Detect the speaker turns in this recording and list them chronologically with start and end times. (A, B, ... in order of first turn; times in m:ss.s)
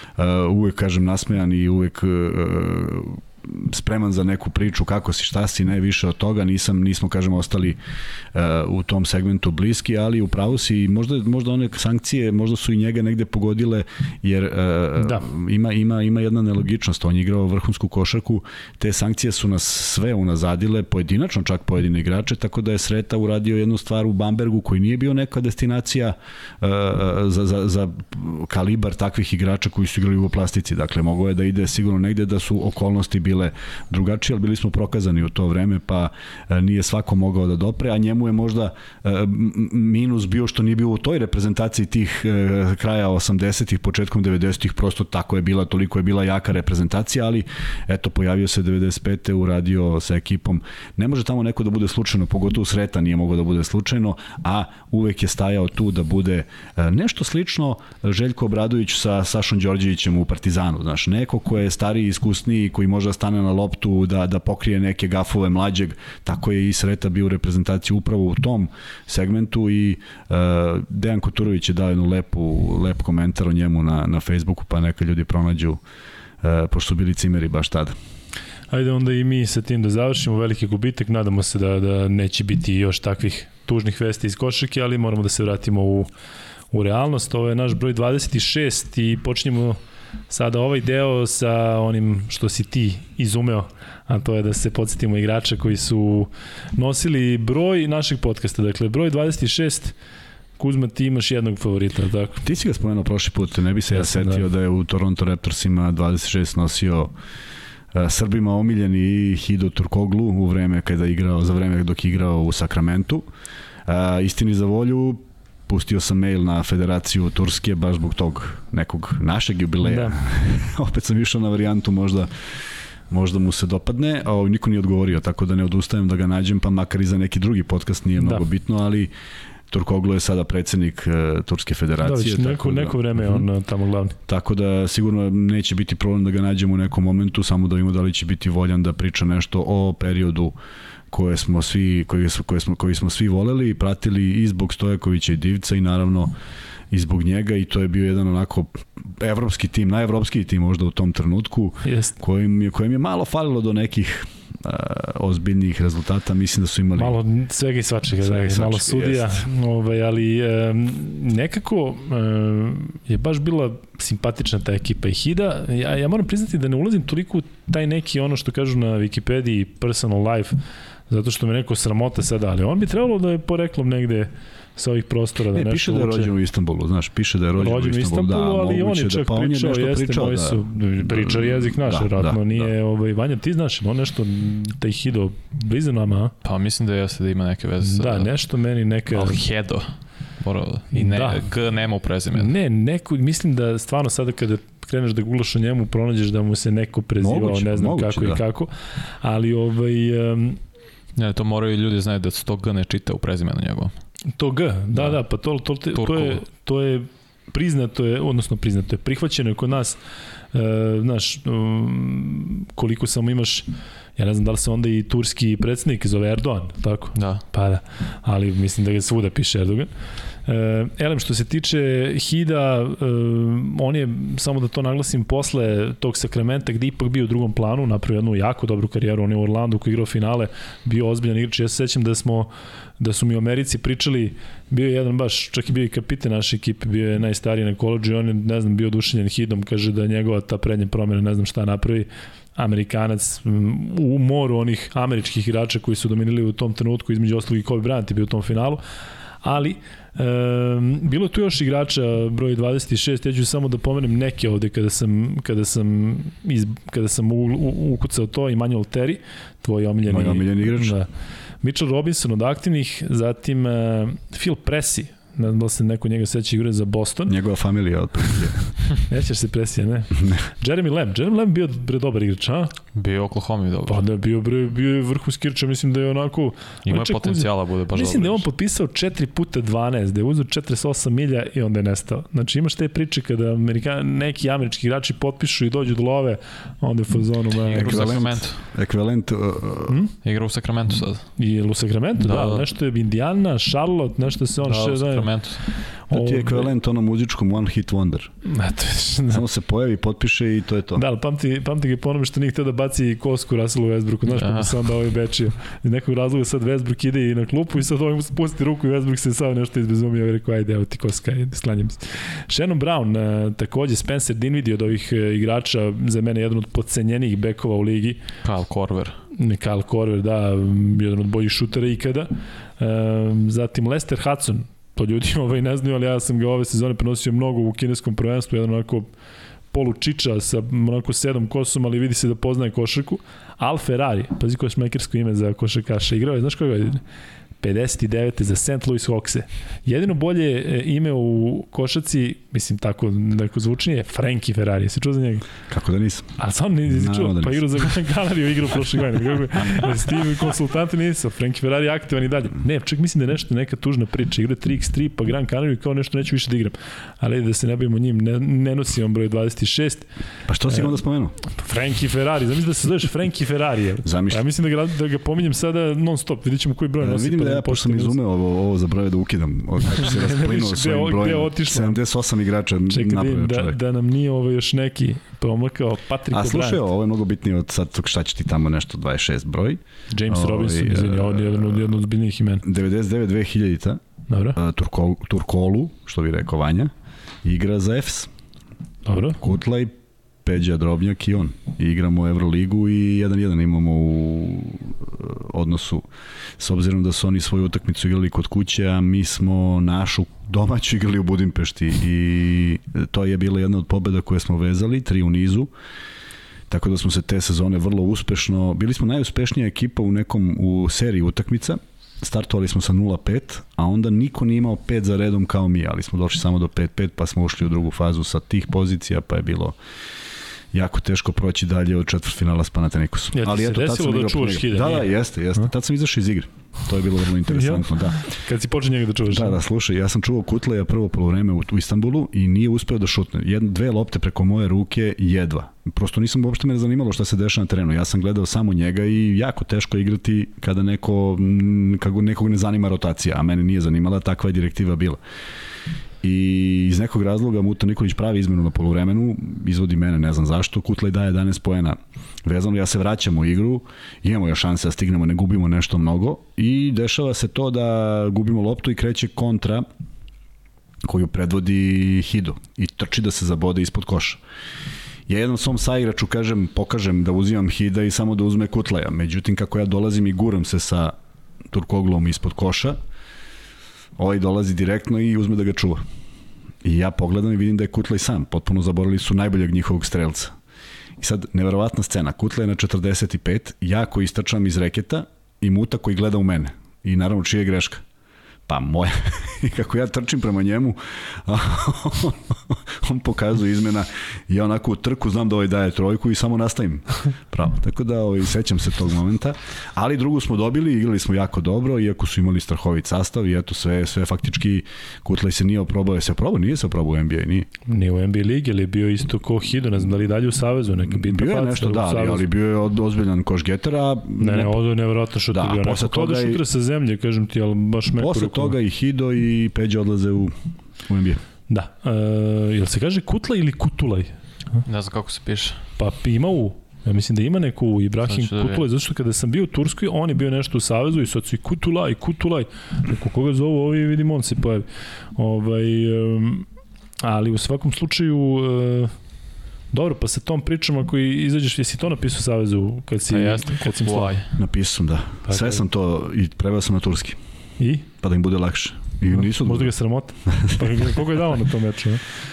0:00.2-0:07.8 A
0:08.3-1:15.8 A
1:16.4-1:17.9 A
1:18.7-1:26.1 B
1:26.7-1:29.8 B
1:30.3-1:40.0 B
1:40.6-1:42.4 B
1:42.4-1:47.1 A
1:44.0-1:44.4 B
1:47.9-1:53.3 A
1:53.9-2:02.6 A
1:59.8-2:00.2 B
2:03.1-2:09.1 A
2:08.2-2:08.5 B
2:09.7-2:13.4 A
2:12.0-2:14.2 B
2:14.3-2:20.6 A
2:21.1-2:26.3 A
2:26.9-2:37.2 A
2:31.8-2:32.2 B
2:37.0-2:50.6 B
2:38.2-2:39.4 A
2:51.1-2:56.3 B
2:55.5-3:02.7 A
2:57.6-3:06.3 B
3:06.4-3:08.3 C
3:07.8-3:09.4 B
3:09.1-3:09.9 C
3:10.4-3:12.5 C
3:10.9-3:11.5 B
3:12.4-3:20.6 B
3:17.2-3:18.4 A
3:21.2-3:23.9 C
3:24.4-3:30.0 B
3:26.0-3:26.4 C
3:30.5-3:39.9 B
3:37.2-3:37.4 C
3:40.4-4:08.8 B
4:09.4-4:27.4 B
4:20.1-4:21.0 A
4:27.3-4:28.7 A
4:29.0-4:32.7 B
4:33.0-4:34.0 C
4:33.9-4:48.3 B
4:36.9-4:38.4 C
4:47.7-4:48.6 C
4:47.7-4:50.0 A
4:49.9-4:50.1 B
4:50.2-4:51.3 C
4:51.4-4:56.7 B
4:52.2-4:52.6 C
4:54.6-4:55.6 C
4:56.1-4:58.3 A
4:58.4-4:59.4 B
4:59.3-5:01.0 A
5:01.0-5:18.2 B
5:04.3-5:04.8 C
5:18.4-5:19.2 C
5:19.3-5:29.1 B
5:29.7-5:37.0 B
5:37.6-5:45.5 B
5:45.7-5:46.4 A
5:46.4-6:00.1 B
5:46.9-5:47.6 A
6:00.5-6:01.4 A
6:01.4-6:08.2 B
6:04.0-6:04.4 A
6:07.0-6:13.8 A
6:10.0-6:12.0 B
6:12.9-6:16.8 B
6:16.3-6:21.9 A
6:20.1-6:22.6 B
6:22.6-6:24.0 A
6:24.3-6:24.6 B
6:24.6-6:26.9 A
6:27.4-6:28.3 A
6:29.1-6:29.4 B
6:29.4-6:29.9 A
6:30.4-6:36.1 A
6:36.6-6:45.7 A
6:46.7-6:59.8 A
7:00.7-7:08.2 A
7:03.3-7:05.1 B
7:07.5-7:09.6 B
7:09.3-7:25.2 A
7:26.2-7:39.8 A
7:41.0-7:44.4 A
7:45.3-7:51.1 A
7:51.7-7:53.0 A
7:54.2-7:56.0 A
7:56.8-8:00.5 A
8:01.2-8:08.0 A
8:08.7-8:27.7 A
8:27.9-8:32.5 B
8:31.1-8:34.8 A
8:34.4-8:38.8 B
8:35.5-8:36.6 A
8:38.2-8:41.4 A
8:41.7-8:44.3 B
8:44.8-8:45.8 C
8:46.0-8:56.7 B
8:48.3-8:48.8 C
8:57.2-8:59.1 B
8:59.9-9:04.4 B
9:03.3-9:04.5 C
9:04.5-9:07.4 A
9:05.5-9:05.8 B
9:07.8-9:08.1 B
9:08.2-9:09.9 A
9:09.3-9:12.2 B
9:10.5-9:11.1 A